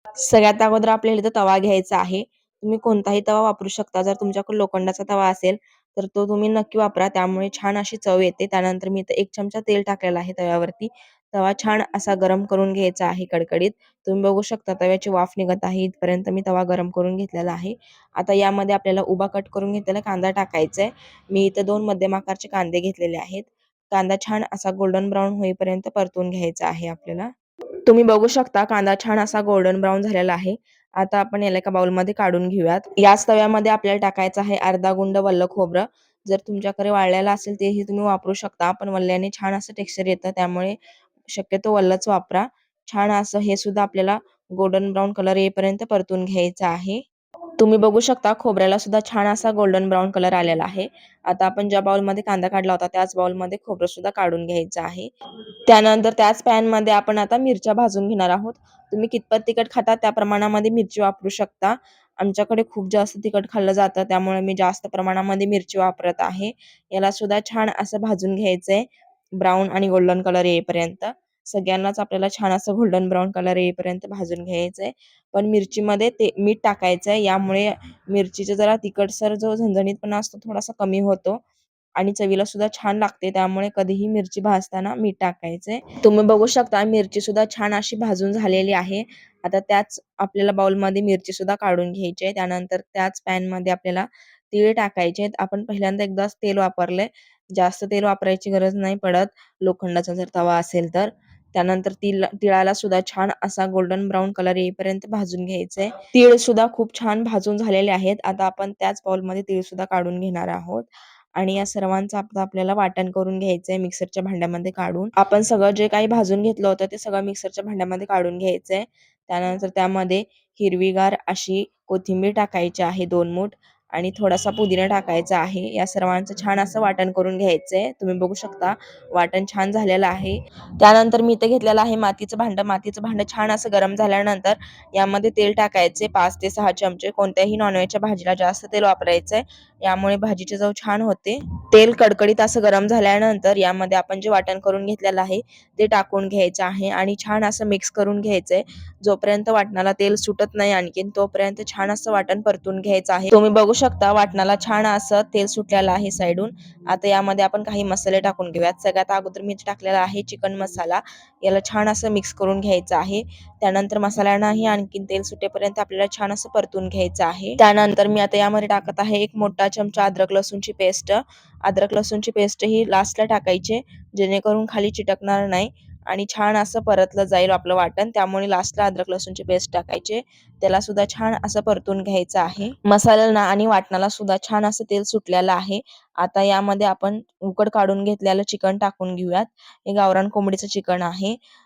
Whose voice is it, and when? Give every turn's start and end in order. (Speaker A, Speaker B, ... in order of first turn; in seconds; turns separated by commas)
Speaker A: 0.2-27.3, Speaker A: 27.9-40.8, Speaker A: 41.3-47.0, Speaker A: 47.6-55.1, Speaker A: 55.7-68.8, Speaker A: 69.4-81.4, Speaker A: 82.0-191.4